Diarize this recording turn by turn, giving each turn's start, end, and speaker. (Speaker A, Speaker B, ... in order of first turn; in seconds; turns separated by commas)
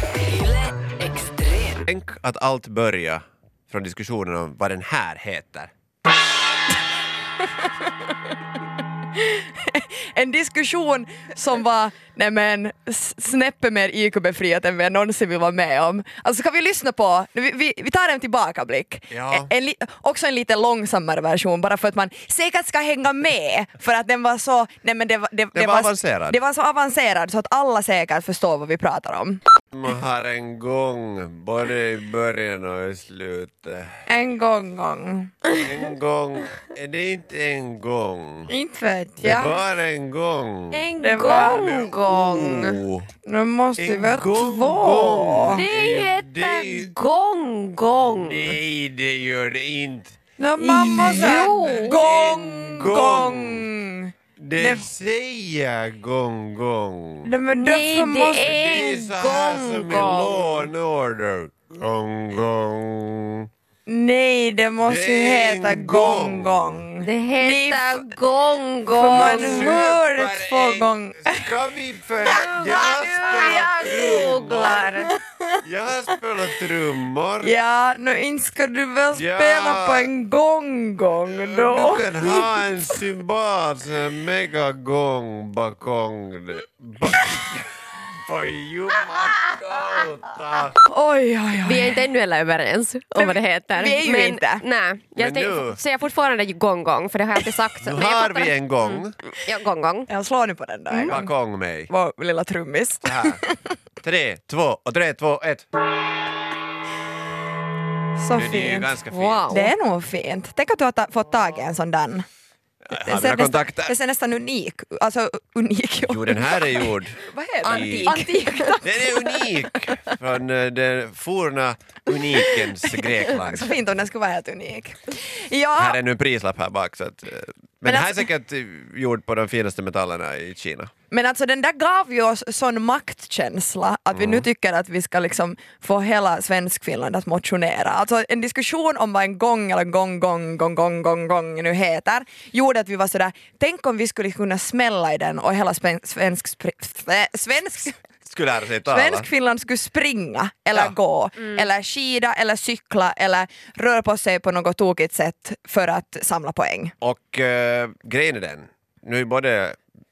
Speaker A: 1.0-1.8, Speaker B: 1.9-5.7, Speaker C: 7.6-7.8, Speaker C: 9.2-29.4, Speaker B: 19.1-19.5, Speaker B: 25.5-26.4, Speaker B: 29.7-34.0, Speaker C: 34.1-35.3, Speaker B: 35.6-38.5, Speaker C: 38.5-39.5, Speaker B: 39.2-43.1, Speaker A: 40.7-42.8, Speaker C: 41.0-41.8, Speaker C: 43.2-45.6, Speaker B: 43.8-46.9, Speaker A: 45.5-48.6, Speaker B: 48.1-50.1, Speaker C: 50.4-54.9, Speaker A: 50.6-52.1, Speaker B: 50.9-53.6, Speaker B: 54.4-57.3, Speaker C: 57.2-58.7, Speaker A: 57.5-60.6, Speaker B: 58.4-63.5, Speaker C: 63.9-68.1, Speaker B: 64.8-66.8, Speaker A: 67.0-69.8, Speaker C: 68.9-71.5, Speaker B: 69.0-74.9, Speaker A: 72.3-75.1, Speaker C: 74.7-75.2, Speaker B: 75.6-77.5, Speaker C: 77.4-82.6, Speaker B: 79.1-80.1, Speaker B: 81.4-90.8, Speaker C: 90.8-92.0, Speaker A: 91.6-100.1, Speaker C: 93.2-94.6, Speaker B: 95.2-95.8, Speaker B: 97.8-99.1, Speaker C: 100.1-101.3, Speaker A: 100.9-101.2, Speaker B: 101.1-101.9, Speaker C: 101.9-103.7, Speaker B: 103.0-103.4, Speaker B: 104.0-105.7, Speaker C: 108.2-108.9, Speaker B: 108.3-109.4, Speaker A: 109.1-109.7, Speaker C: 109.5-112.2, Speaker B: 112.9-113.9, Speaker C: 113.0-120.1, Speaker B: 116.1-118.1, Speaker A: 117.6-118.7, Speaker B: 118.8-123.7, Speaker C: 122.2-126.0, Speaker B: 125.8-130.9, Speaker C: 127.8-128.3, Speaker C: 131.1-148.0, Speaker B: 134.1-134.4, Speaker B: 148.2-149.3, Speaker C: 148.8-156.9, Speaker B: 157.0-159.8